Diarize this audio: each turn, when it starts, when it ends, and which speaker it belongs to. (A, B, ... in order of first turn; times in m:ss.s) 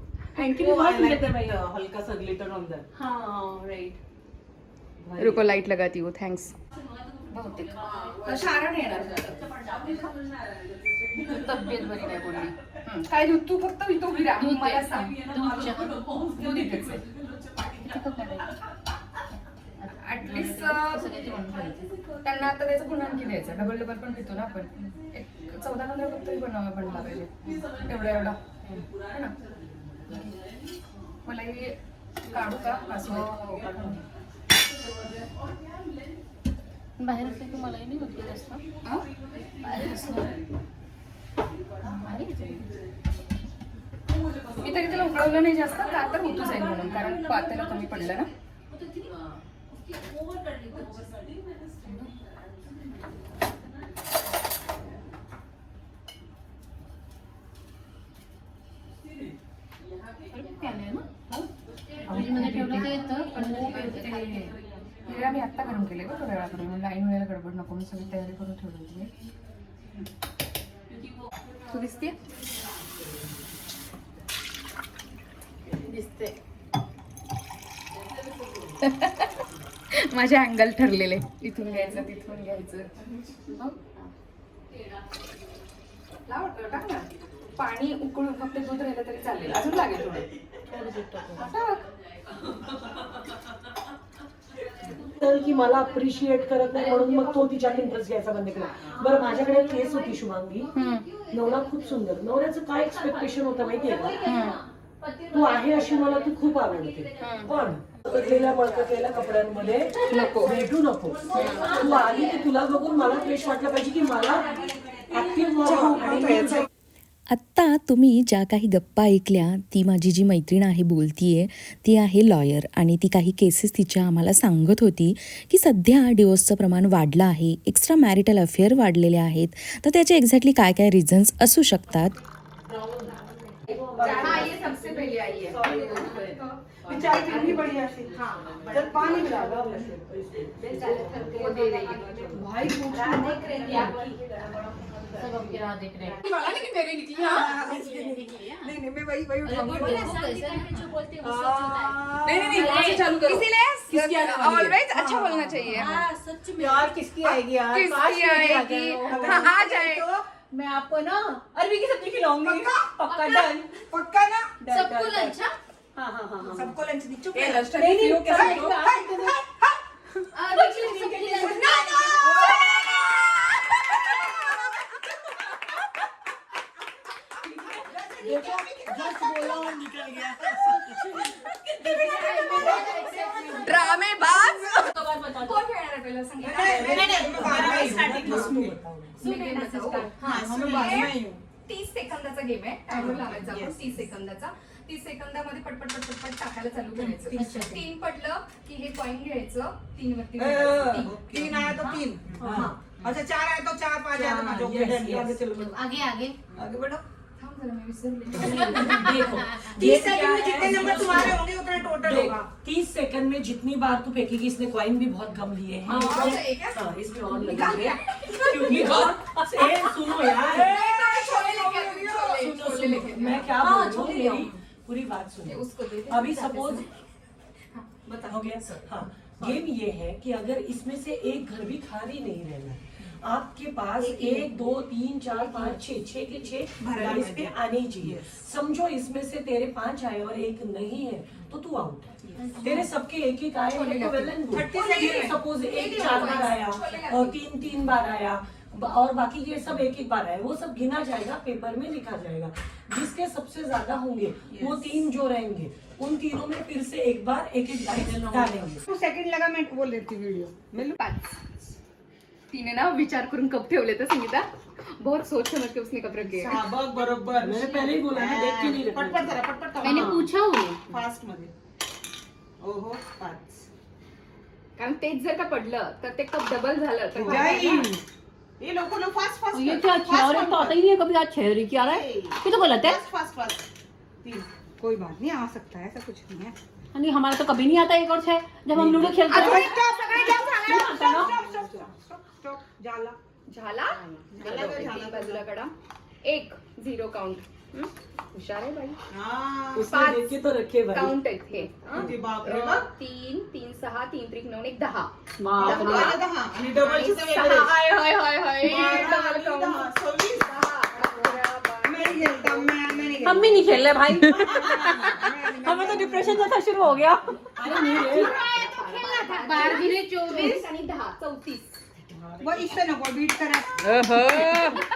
0:00.4-0:02.0 A
0:00.4-0:02.8 B
0:02.9-0:04.0 A
0:05.0-0:05.3 B
0:05.2-0:06.5 C
0:07.3-0:09.9 C
0:07.8-0:08.6 A
0:09.6-0:09.9 A
0:11.2-0:15.2 C
0:11.2-0:12.0 A
0:14.5-0:17.0 A
0:16.1-0:16.8 B
0:16.5-0:16.9 C
0:17.8-0:18.5 C
0:19.8-0:21.2 C
0:19.9-0:21.9 A
0:22.2-0:29.4 C
0:27.5-0:27.8 A
0:31.2-0:31.8 C
0:32.3-0:34.0 C
0:37.0-0:38.6 A
0:39.6-0:40.4 A
0:41.8-0:42.4 C
0:41.9-0:42.7 A
0:44.6-0:48.3 C
0:46.0-0:49.2 A
0:49.9-0:51.3 A
1:00.3-1:01.1 A
1:02.1-1:04.6 A
1:02.1-1:09.1 C
1:11.7-1:12.2 C
1:15.8-1:16.4 A
1:18.8-1:19.3 C
1:19.9-1:22.9 C
1:21.7-1:22.1 A
1:23.6-1:24.0 A
1:26.3-1:30.3 C
1:30.7-1:31.4 B
1:31.4-1:31.8 C
1:34.8-1:38.0 A
1:34.9-1:40.7 B
1:38.5-1:56.2 A
1:40.8-1:41.0 C
1:41.3-1:44.3 B
1:44.2-1:44.6 C
1:45.3-1:56.7 B
1:47.2-1:47.5 C
1:50.1-1:50.6 C
1:51.3-1:51.8 C
1:55.6-1:56.7 D
1:57.3-2:12.2 E
2:13.7-2:15.0 B
2:14.0-2:14.6 D
2:14.0-2:17.8 C
2:15.4-2:16.3 D
2:16.9-2:19.9 D
2:16.9-2:19.1 A
2:18.7-2:22.4 B
2:20.6-2:22.4 C
2:21.6-2:21.9 A
2:22.3-2:23.9 D
2:23.0-2:26.2 A
2:23.0-2:24.2 B
2:26.2-2:27.5 C
2:27.1-2:28.7 A
2:27.2-2:30.3 D
2:29.4-2:34.8 A
2:31.2-2:32.7 D
2:32.3-2:36.0 C
2:34.9-2:35.9 D
2:35.6-2:39.6 A
2:36.6-2:36.9 B
2:37.5-2:40.1 C
2:39.1-2:40.2 D
2:40.5-2:43.6 A
2:41.8-2:43.7 B
2:42.4-2:43.2 D
2:43.9-2:44.6 D
2:44.6-2:45.6 A
2:44.6-2:45.4 B
2:46.0-2:46.7 B
2:46.4-2:49.4 D
2:46.5-2:46.7 A
2:47.4-2:48.5 C
2:47.7-2:49.3 B
2:48.5-2:49.0 A
2:50.4-2:52.4 A
2:50.8-2:51.4 B
2:51.2-2:53.2 D
2:52.1-2:54.4 C
2:57.8-3:00.9 D
2:57.8-3:03.6 B
3:01.4-3:04.0 A
3:02.1-3:03.7 D
3:02.2-3:02.6 C
3:03.6-3:07.6 C
3:04.3-3:05.6 B
3:06.4-3:08.8 D
3:06.6-3:09.4 B
3:09.2-3:21.5 C
3:09.2-3:10.4 A
3:10.2-3:11.4 D
3:10.2-3:10.6 B
3:12.9-3:13.9 D
3:17.3-3:17.8 B
3:17.3-3:17.8 A
3:20.4-3:25.4 D
3:21.5-3:23.0 B
3:24.1-3:26.0 B
3:25.5-3:26.4 A
3:26.5-3:27.0 D
3:27.4-3:29.4 C
3:28.3-3:31.4 B
3:28.8-3:31.3 A
3:29.8-3:32.5 D
3:32.0-3:40.8 B
3:35.9-3:36.9 C
3:35.9-3:36.4 A
3:37.5-3:37.9 A
3:37.5-3:39.0 C
3:40.4-3:42.3 D
3:40.4-3:44.6 C
3:42.3-3:46.9 B
3:45.5-3:46.9 C
3:48.1-3:49.6 D
3:48.3-4:18.8 B
3:54.0-3:54.5 D
3:55.4-3:55.8 D
3:56.8-3:58.4 D
4:03.7-4:07.4 C
4:04.5-4:05.4 D
4:18.9-4:21.0 D
4:21.0-4:21.4 C
4:22.5-4:26.7 C
4:26.2-4:30.3 D
4:27.3-4:30.2 B
4:29.8-4:30.8 A
4:30.9-4:31.5 D
4:32.6-4:33.7 D
4:34.8-4:37.9 C
4:37.1-4:38.0 D
4:37.3-4:37.8 A
4:38.6-4:40.9 D
4:39.5-4:43.0 A
4:41.8-4:43.7 D
4:44.2-4:46.6 D
4:46.9-4:51.3 A
4:48.7-4:49.7 B
4:49.3-4:53.2 D
4:50.7-4:51.3 B
4:53.5-4:55.7 C
4:54.3-4:55.4 D
4:56.2-4:59.0 C
4:59.1-4:59.9 D
4:59.8-5:01.2 B
4:59.8-5:00.4 C
5:00.9-5:10.0 C
5:01.9-5:02.9 D
5:05.4-5:06.2 A
5:05.6-5:07.7 D
5:08.6-5:16.4 D
5:10.5-5:13.1 C
5:13.2-5:17.5 A
5:15.7-5:18.4 B
5:17.6-5:19.2 D
5:17.7-5:22.0 C
5:19.3-5:20.7 A
5:22.1-5:24.6 D
5:24.4-5:24.8 C